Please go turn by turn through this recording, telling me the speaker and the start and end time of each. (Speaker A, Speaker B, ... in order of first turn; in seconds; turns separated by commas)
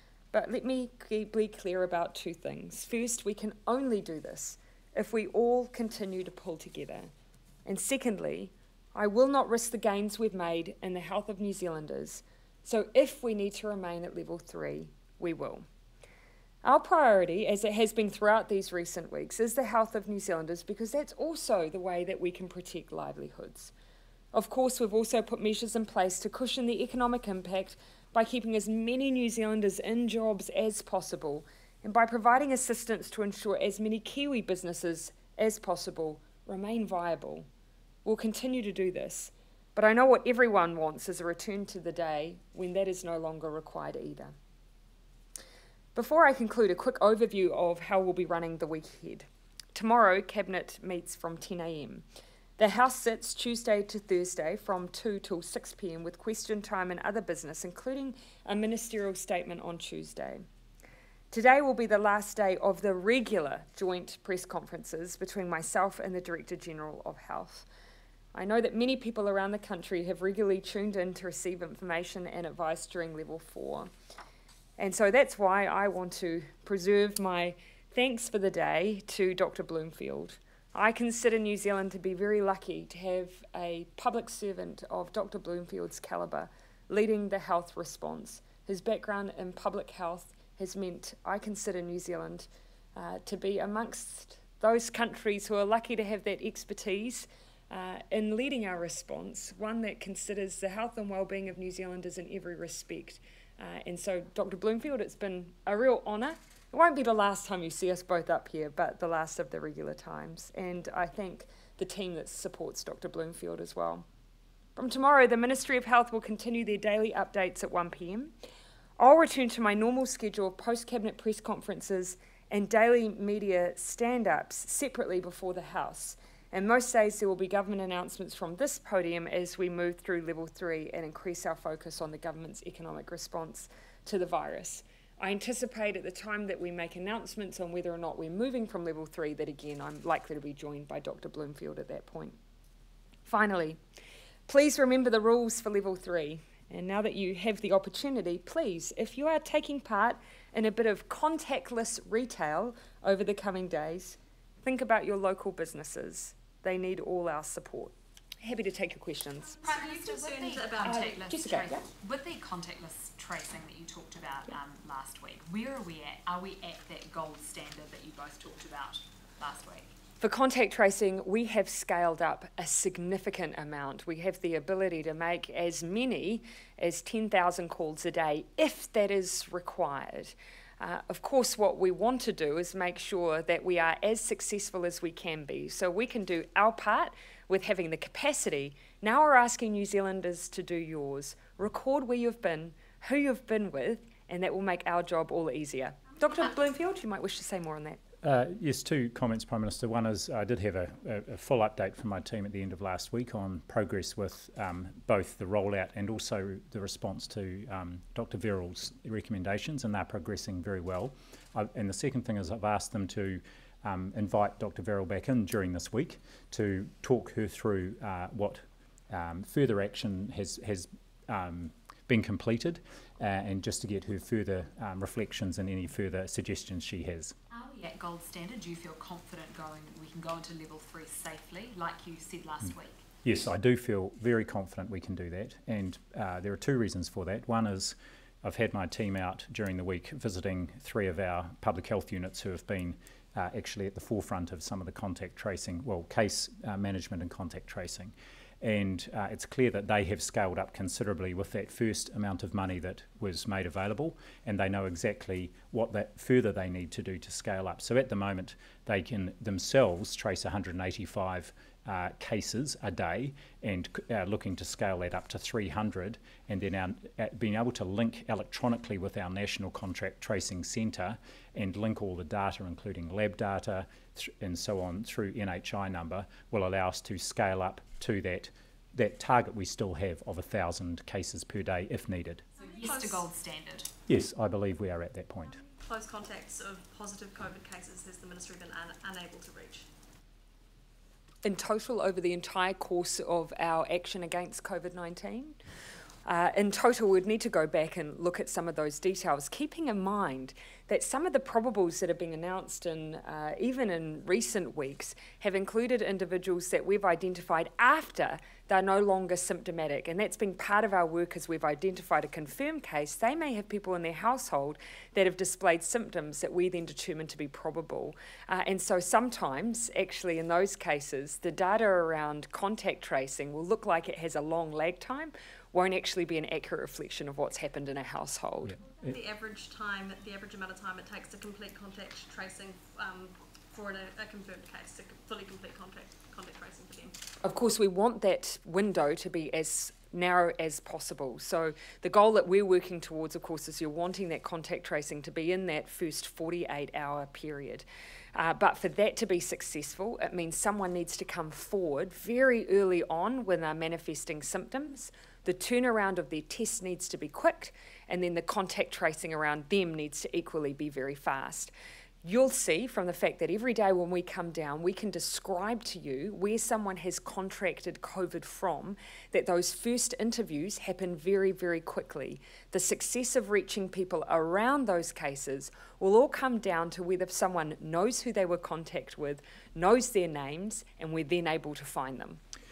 Speaker A: 0.3-7.1, Speaker A: 7.7-15.7, Speaker A: 16.6-23.7, Speaker A: 24.3-37.5, Speaker A: 38.0-44.3, Speaker A: 45.9-52.0, Speaker A: 52.6-60.4, Speaker A: 61.3-67.7, Speaker A: 68.3-73.9, Speaker A: 74.8-114.0, Speaker A: 114.8-118.3, Speaker A: 119.0-142.4, Speaker A: 143.2-143.8, Speaker A: 144.5-159.6, Speaker B: 159.6-169.9, Speaker C: 159.6-161.2, Speaker A: 160.8-161.8, Speaker A: 170.2-198.0, Speaker D: 198.2-227.3, Speaker B: 227.5-233.0, Speaker D: 233.2-282.4, Speaker B: 282.7-283.9, Speaker C: 282.8-283.2, Speaker D: 284.1-285.6, Speaker C: 285.8-289.9, Speaker A: 291.4-295.6, Speaker A: 296.2-328.8, Speaker C: 329.0-337.1, Speaker A: 337.4-361.7, Speaker A: 362.2-382.4